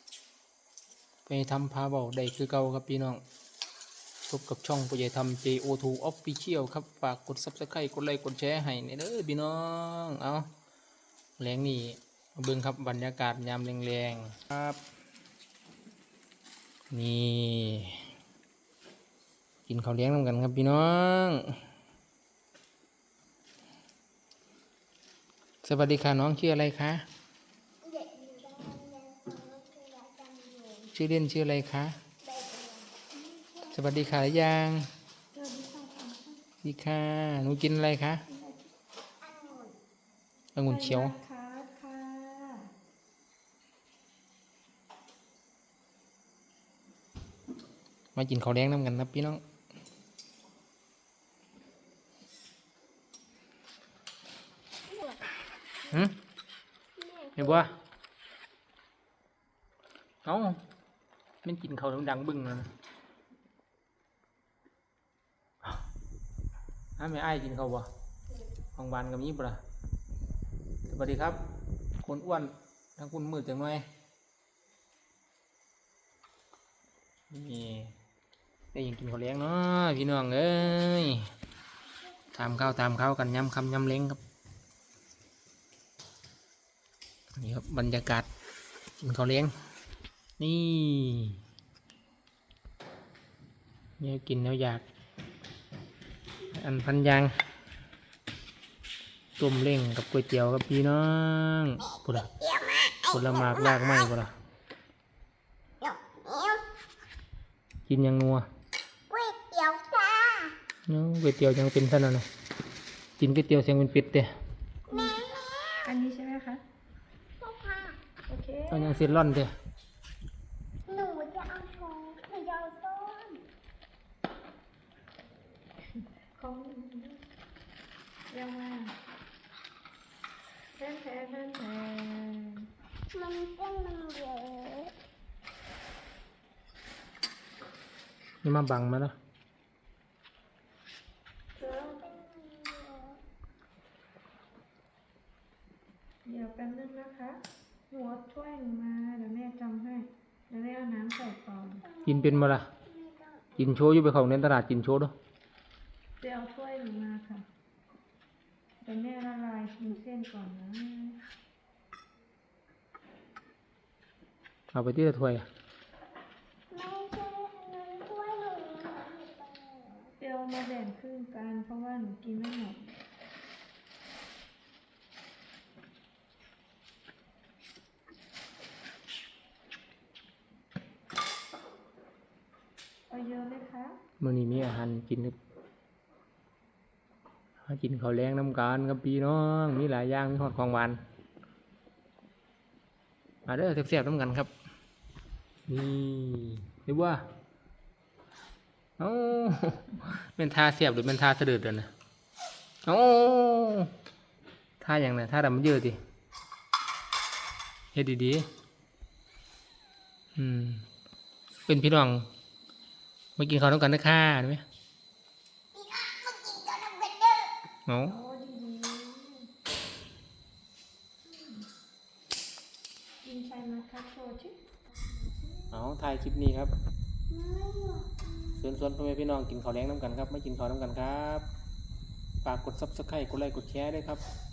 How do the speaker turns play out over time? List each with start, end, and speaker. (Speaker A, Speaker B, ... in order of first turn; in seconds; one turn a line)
Speaker A: 1.3-3.2
Speaker A: 4.3-10.5
Speaker A: 11.4-14.8
Speaker A: 16.9-18.1
Speaker A: 19.7-21.5
Speaker A: 25.6-27.0
Speaker B: 27.8-30.9
Speaker A: 30.9-31.9
Speaker B: 32.2-33.7
Speaker A: 33.7-34.9
Speaker C: 35.3-36.4
Speaker A: 36.6-38.2
Speaker C: 38.3-38.6
Speaker B: 39.2-39.8
Speaker A: 40.5-41.2
Speaker C: 40.7-42.7
Speaker A: 48.2-49.4
Speaker B: 54.9-55.3
Speaker A: 55.9-56.1
Speaker B: 57.0-57.7
Speaker A: 57.4-57.7
Speaker A: 60.2-60.6
Speaker A: 61.4-62.7
Speaker A: 67.0-67.9
Speaker A: 68.8-69.6
Speaker A: 70.9-71.4
Speaker A: 72.0-73.8
Speaker A: 77.3-77.9
Speaker A: 78.7-81.3
Speaker A: 82.3-84.2
Speaker A: 87.4-88.3
Speaker A: 89.0-89.5
Speaker A: 90.4-91.4
Speaker A: 94.0-94.8
Speaker A: 96.5-97.3
Speaker A: 99.4-102.3
Speaker A: 103.0-104.3
Speaker B: 105.8-106.7
Speaker A: 107.9-108.5
Speaker B: 109.1-110.6
Speaker A: 110.9-112.3
Speaker A: 113.2-114.3
Speaker B: 114.9-115.9
Speaker C: 114.9-116.6
Speaker B: 117.4-118.0
Speaker C: 118.3-119.1
Speaker A: 118.7-119.5
Speaker B: 120.9-123.4
Speaker C: 126.3-127.2
Speaker C: 128.3-129.0
Speaker C: 130.8-132.7
Speaker B: 133.1-134.9
Speaker A: 138.4-139.2
Speaker C: 141.6-142.1
Speaker B: 141.6-143.2
Speaker C: 146.2-151.9
Speaker B: 151.8-153.7
Speaker A: 152.1-152.7
Speaker A: 153.6-155.1
Speaker C: 156.2-157.4
Speaker C: 158.8-161.2
Speaker A: 164.7-165.5
Speaker B: 166.7-170.2
Speaker C: 170.2-173.0
Speaker C: 183.1-184.0
Speaker A: 184.2-185.3
Speaker A: 187.7-191.0
Speaker A: 193.5-194.5
Speaker A: 195.7-197.2
Speaker A: 199.0-201.9
Speaker A: 202.9-203.9
Speaker A: 204.8-206.0
Speaker A: 207.9-208.5
Speaker A: 210.4-210.8
Speaker A: 211.7-212.3
Speaker A: 213.4-214.6
Speaker B: 215.8-217.5
Speaker A: 217.9-218.2
Speaker C: 218.1-219.5
Speaker C: 221.3-221.6
Speaker C: 223.2-224.6
Speaker A: 225.7-226.7
Speaker B: 227.3-228.6
Speaker A: 228.6-231.5
Speaker A: 232.4-234.2